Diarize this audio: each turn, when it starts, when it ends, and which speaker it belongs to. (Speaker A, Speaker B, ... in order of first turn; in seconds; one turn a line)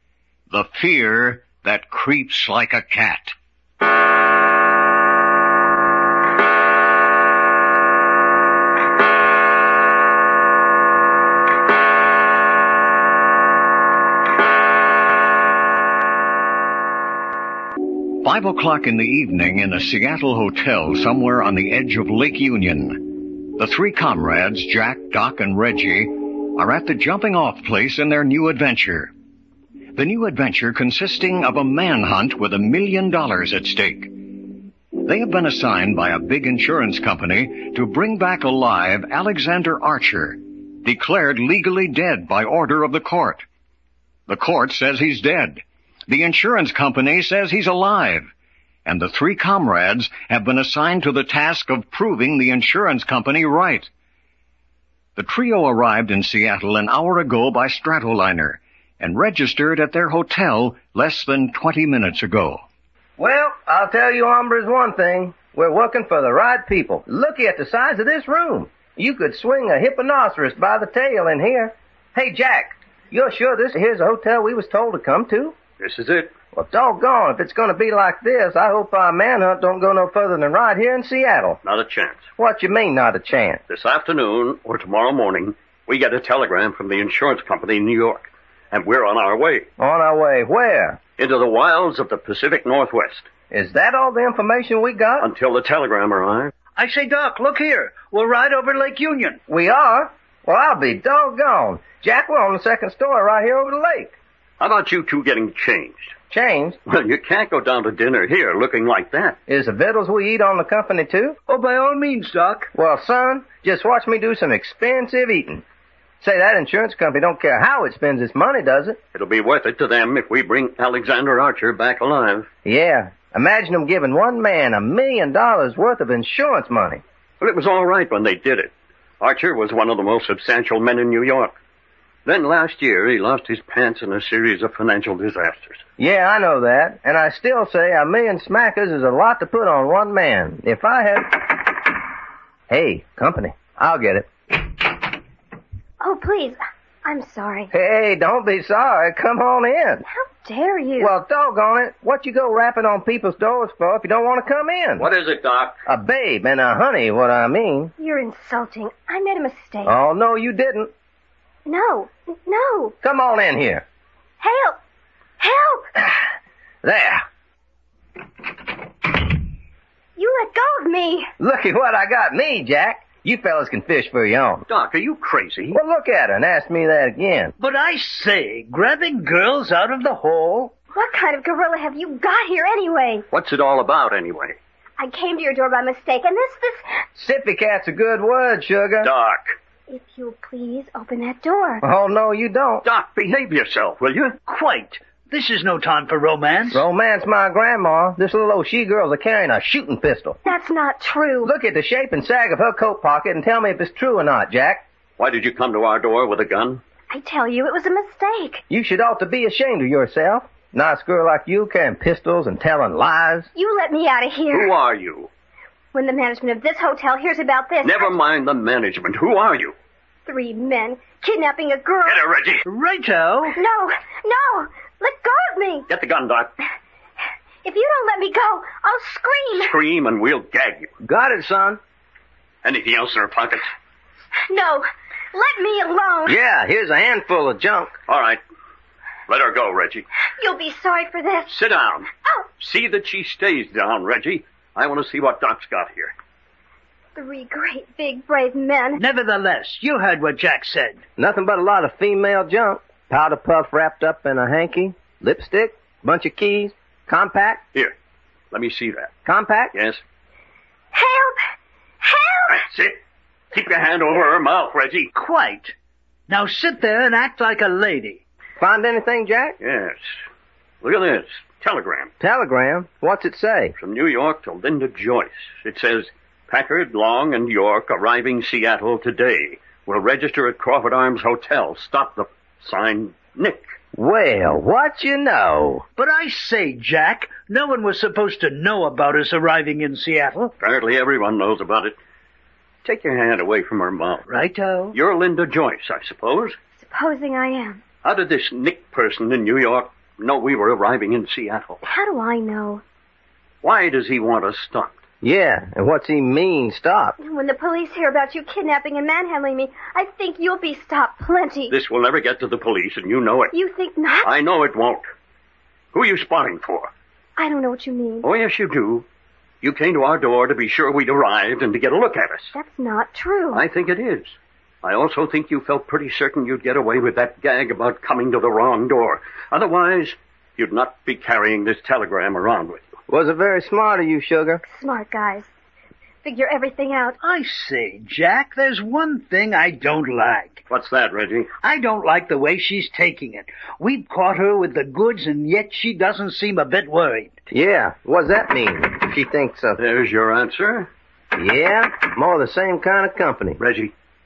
Speaker A: 0.5-3.3
Speaker A: 18.1-29.1
Speaker A: 29.9-43.4
Speaker A: 44.3-48.3
Speaker A: 48.8-53.9
Speaker A: 55.1-62.6
Speaker B: 63.2-75.5
Speaker C: 75.8-76.3
Speaker B: 76.5-81.6
Speaker C: 81.6-82.3
Speaker B: 82.4-83.6
Speaker C: 83.7-89.7
Speaker B: 89.8-91.0
Speaker C: 91.2-93.3
Speaker B: 93.5-95.3
Speaker C: 95.2-96.5
Speaker D: 96.8-99.4
Speaker B: 99.5-104.1
Speaker C: 104.6-106.1
Speaker B: 106.3-106.8
Speaker C: 106.9-109.4
Speaker B: 109.5-111.4
Speaker D: 111.5-112.7
Speaker B: 112.7-115.6
Speaker B: 116.2-119.0
Speaker C: 119.1-122.5
Speaker B: 122.6-127.0
Speaker C: 127.4-131.5
Speaker C: 132.2-135.8
Speaker B: 136.0-141.9
Speaker B: 142.7-144.9
Speaker E: 146.0-147.7
Speaker B: 147.7-150.0
Speaker E: 150.1-151.1
Speaker B: 151.0-155.1
Speaker C: 155.0-155.7
Speaker B: 155.9-157.9
Speaker E: 158.0-160.0
Speaker B: 159.8-160.9
Speaker E: 161.7-162.9
Speaker B: 163.0-163.8
Speaker E: 164.4-164.8
Speaker E: 165.4-165.9
Speaker B: 166.8-167.2
Speaker E: 170.2-171.3
Speaker B: 171.4-174.7
Speaker C: 174.7-175.8
Speaker B: 175.7-177.5
Speaker D: 177.6-180.7
Speaker E: 180.9-183.2
Speaker C: 183.3-184.6
Speaker E: 185.0-186.8
Speaker B: 187.2-189.1
Speaker C: 189.0-189.5
Speaker E: 189.9-191.8
Speaker B: 191.8-192.8
Speaker C: 192.8-194.4
Speaker D: 194.5-196.8
Speaker B: 196.7-200.4
Speaker E: 200.4-201.5
Speaker B: 201.4-204.8
Speaker C: 205.2-206.8
Speaker E: 207.1-208.6
Speaker B: 208.7-213.5
Speaker E: 213.5-214.7
Speaker C: 214.5-215.3
Speaker E: 215.9-218.2
Speaker C: 217.8-219.7
Speaker E: 220.2-222.2
Speaker C: 222.0-222.6
Speaker D: 222.6-223.6
Speaker E: 223.5-225.8
Speaker C: 225.9-226.5
Speaker E: 227.6-229.7
Speaker C: 229.6-230.9
Speaker B: 231.0-231.8
Speaker C: 232.6-233.7
Speaker E: 234.5-236.4
Speaker B: 236.2-237.9
Speaker C: 238.1-238.4
Speaker C: 239.3-240.1
Speaker E: 240.4-241.5
Speaker C: 241.5-242.1
Speaker C: 242.6-246.1
Speaker E: 247.1-249.0
Speaker D: 249.0-251.0
Speaker B: 251.2-257.6
Speaker C: 258.5-259.1
Speaker B: 259.2-259.7
Speaker C: 259.7-260.0
Speaker E: 260.9-261.4
Speaker E: 262.0-262.6
Speaker C: 262.5-263.0
Speaker C: 263.5-265.1
Speaker D: 265.1-265.7
Speaker D: 266.3-268.2
Speaker B: 268.6-269.6
Speaker C: 269.6-270.0
Speaker C: 270.8-272.1
Speaker B: 272.2-273.7
Speaker C: 273.8-283.6
Speaker B: 283.9-285.8
Speaker D: 285.9-290.5
Speaker C: 290.6-291.9
Speaker C: 292.8-294.3
Speaker D: 294.3-294.9
Speaker C: 294.9-296.6
Speaker E: 296.7-297.8
Speaker C: 298.0-301.8
Speaker E: 301.8-302.8
Speaker C: 303.6-305.0
Speaker B: 305.2-307.1
Speaker E: 307.2-311.7
Speaker C: 311.7-313.5
Speaker E: 313.5-314.3
Speaker C: 314.2-315.1
Speaker C: 315.9-316.9
Speaker E: 317.4-318.3
Speaker C: 318.2-319.1
Speaker C: 319.6-322.5
Speaker E: 322.5-323.6
Speaker C: 323.5-332.9
Speaker B: 333.1-334.6
Speaker E: 334.6-335.5
Speaker E: 336.2-337.2
Speaker D: 337.2-340.6
Speaker C: 340.7-341.5
Speaker D: 341.6-347.3
Speaker B: 347.5-349.8
Speaker C: 349.8-350.9
Speaker B: 351.4-353.6
Speaker C: 353.6-353.9